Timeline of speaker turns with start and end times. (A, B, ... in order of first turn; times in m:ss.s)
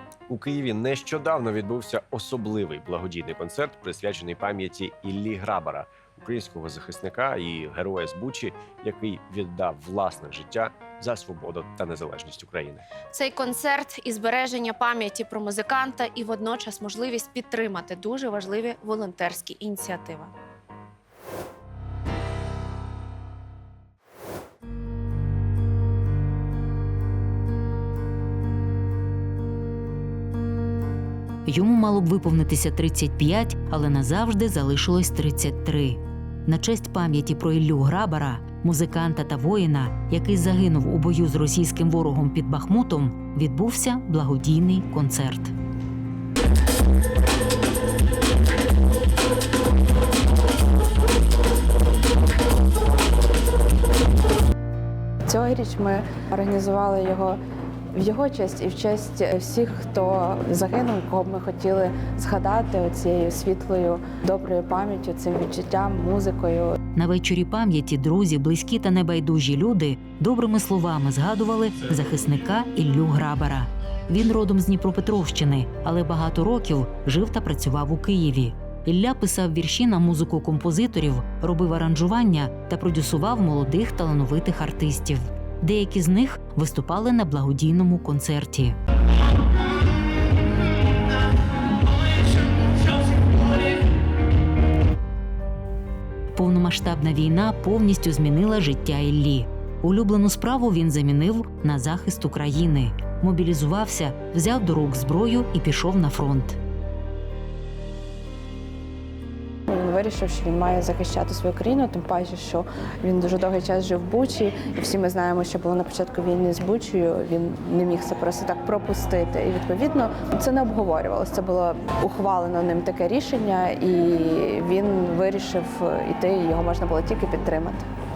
0:00.3-0:12.8 A
0:13.1-0:20.3 B
0:31.4-0:45.5 C
0:55.2-0:57.4 D
0:57.9-1:06.8 D
1:06.9-1:28.8 C
1:36.3-1:46.6 C
1:49.7-2:07.8 D